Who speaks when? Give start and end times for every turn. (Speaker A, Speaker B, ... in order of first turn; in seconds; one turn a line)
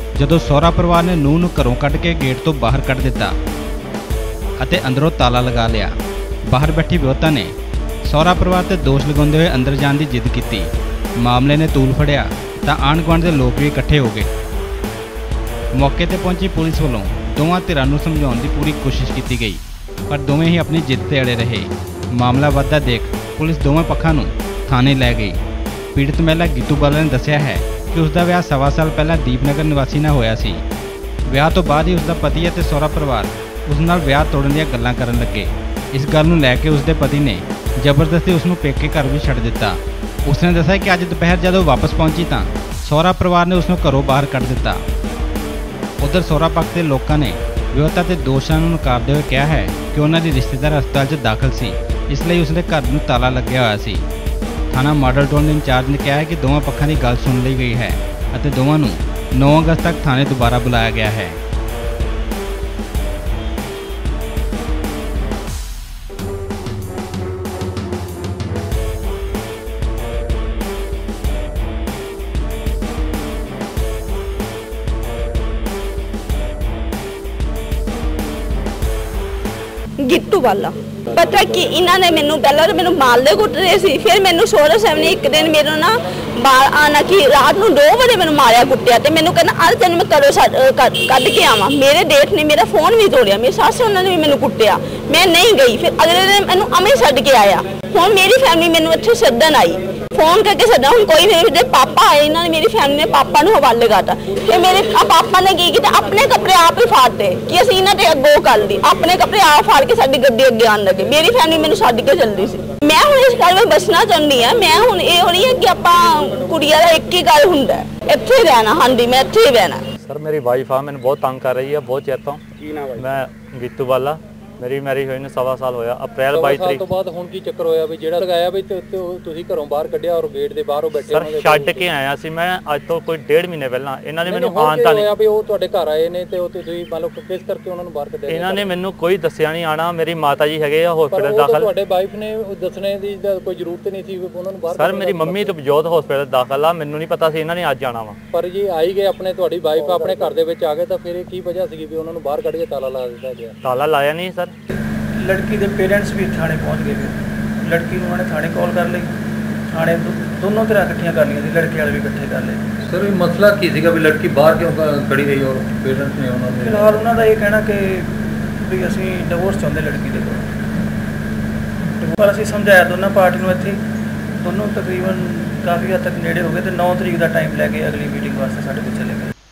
Speaker A: 0.2-3.3
Speaker A: 4.6-5.9
Speaker A: 6.5-7.5
Speaker A: 8.0-14.3
Speaker A: 15.7-25.4
Speaker A: 25.9-30.6
Speaker A: 31.3-44.8
Speaker A: 46.0-54.0
Speaker A: 54.7-61.4
Speaker B: 80.0-119.8
Speaker C: 120.0-126.9
Speaker D: 126.3-131.9
Speaker C: 131.0-135.1
Speaker D: 134.2-138.7
Speaker C: 138.3-141.7
Speaker D: 141.1-145.6
Speaker C: 144.7-148.2
Speaker D: 148.3-153.6
Speaker E: 149.9-150.3
Speaker C: 153.6-154.5
Speaker E: 155.2-159.1
Speaker E: 159.7-162.6
Speaker F: 162.8-167.0
Speaker E: 166.6-170.4
Speaker E: 172.0-173.8
Speaker E: 174.4-179.3